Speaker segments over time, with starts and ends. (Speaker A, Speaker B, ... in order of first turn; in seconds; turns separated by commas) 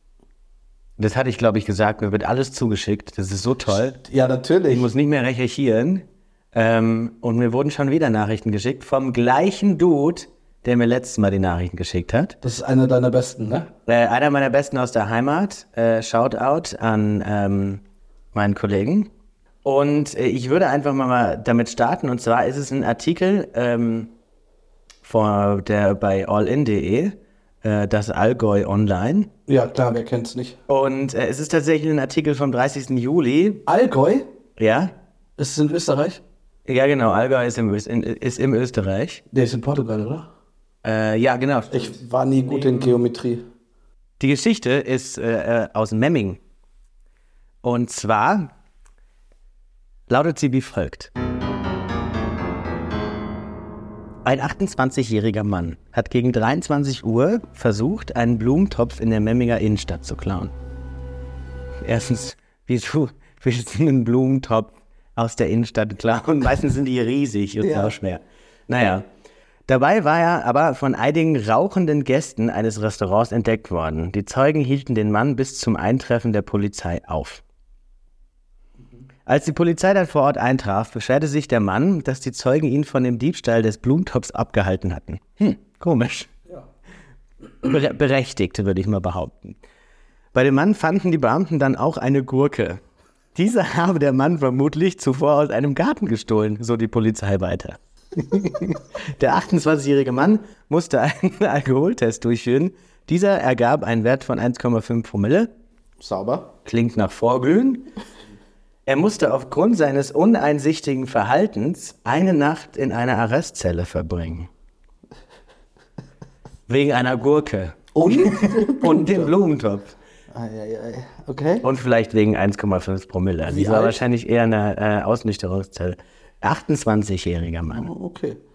Speaker A: 1.0-4.0, Speaker B: 4.0-4.9, Speaker A: 4.7-12.4, Speaker B: 12.4-13.7, Speaker A: 13.9-17.8, Speaker A: 18.3-19.1, Speaker A: 19.6-24.1, Speaker A: 25.0-29.3, Speaker B: 29.5-30.6, Speaker A: 30.7-33.6, Speaker B: 33.7-34.3, Speaker A: 34.6-34.9, Speaker B: 35.4-36.2, Speaker A: 36.7-39.2, Speaker B: 39.3-40.3, Speaker A: 40.8-41.9, Speaker B: 41.7-43.4, Speaker A: 42.6-42.9, Speaker A: 44.2-46.4, Speaker A: 47.6-48.5, Speaker A: 50.1-51.1, Speaker A: 54.2-60.5, Speaker A: 61.8-69.0, Speaker B: 67.6-68.0, Speaker A: 69.7-77.4, Speaker A: 79.3-86.3, Speaker A: 87.6-89.6, Speaker A: 90.3-92.8, Speaker A: 93.3-105.5, Speaker B: 106.0-106.5, Speaker A: 106.7-107.8, Speaker A: 108.9-114.5, Speaker A: 116.7-120.0, Speaker B: 118.0-119.3, Speaker B: 120.3-121.7, Speaker A: 121.6-127.9, Speaker B: 123.5-124.0, Speaker B: 127.7-128.4